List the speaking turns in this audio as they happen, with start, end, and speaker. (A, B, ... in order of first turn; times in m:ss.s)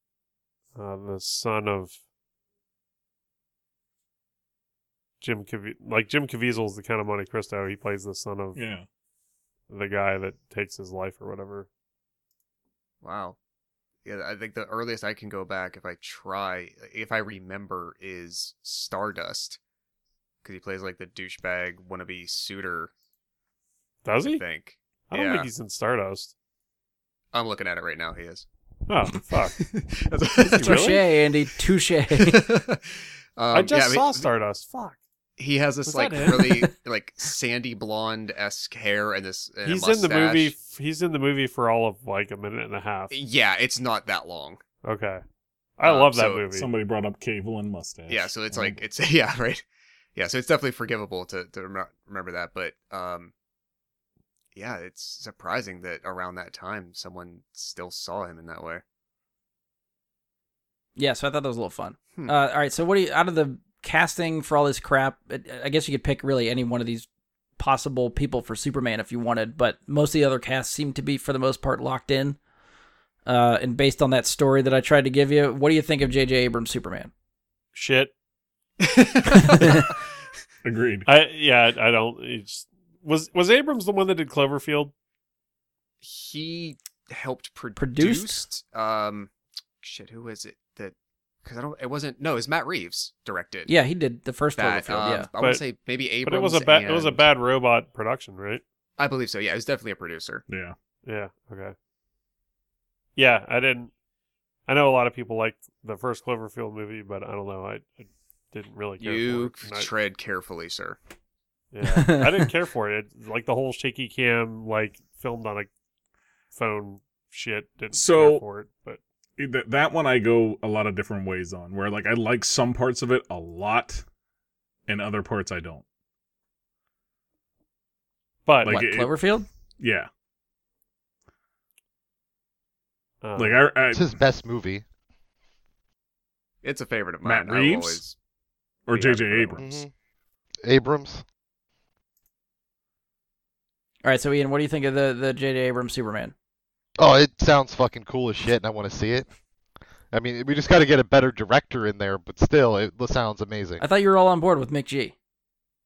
0:00.7-0:02.0 A
0:05.2-0:08.6 A
0:08.6-0:08.8 B
0:09.7-0:11.7 A
0:13.0-0:13.4 C
0:14.0-0:19.6 C
0:20.4-0:22.9 C
0:24.0-0:24.4 A
0:24.2-0:25.5 C
0:25.1-0:26.3 A
0:27.3-0:28.4 C
0:28.9-0:29.6 A
0:29.6-0:30.9 C
0:30.4-0:31.0 A
0:30.6-0:32.4 D
0:32.1-0:34.3 C
0:33.5-0:35.0 A
0:35.4-0:40.5 C
0:35.8-0:36.7 A
0:39.6-0:43.1 A
0:43.1-0:44.6 C
0:44.8-0:45.2 A
0:45.8-0:46.7 A
0:45.8-0:46.4 C
0:46.5-0:48.8 B
0:48.1-0:53.3 C
0:54.6-0:58.8 C
1:01.0-1:07.1 D
1:07.6-1:12.4 D
1:13.2-1:17.1 D
1:17.7-1:18.1 A
1:18.8-1:19.8 C
1:20.6-1:21.1 B
1:21.0-1:24.9 A
1:26.0-1:29.3 C
1:27.8-1:28.4 D
1:29.8-1:33.7 C
1:33.7-1:35.3 D
1:34.6-1:37.3 C
1:36.2-1:38.6 A
1:39.0-1:40.4 C
1:40.5-1:40.7 B
1:41.1-1:41.7 A
1:43.2-1:43.9 A
1:44.7-1:49.9 A
1:49.0-1:51.0 C
1:51.7-1:55.7 A
1:51.8-1:52.5 D
1:56.5-1:59.0 A
1:57.9-1:58.4 B
1:59.4-2:04.0 B
2:04.9-2:05.8 B
2:08.4-2:08.8 A
2:08.6-2:09.1 B
2:08.6-2:09.5 D
2:09.8-2:10.1 B
2:13.2-2:13.6 A
2:13.4-2:14.2 B
2:13.9-2:14.8 E
2:16.6-2:18.2 C
2:17.2-2:18.0 B
2:18.8-2:19.7 B
2:18.9-2:19.8 A
2:19.6-2:19.9 E
2:20.6-2:21.2 E
2:24.0-2:26.3 D
2:27.0-2:29.2 E
2:30.1-2:33.8 E
2:33.8-2:35.2 D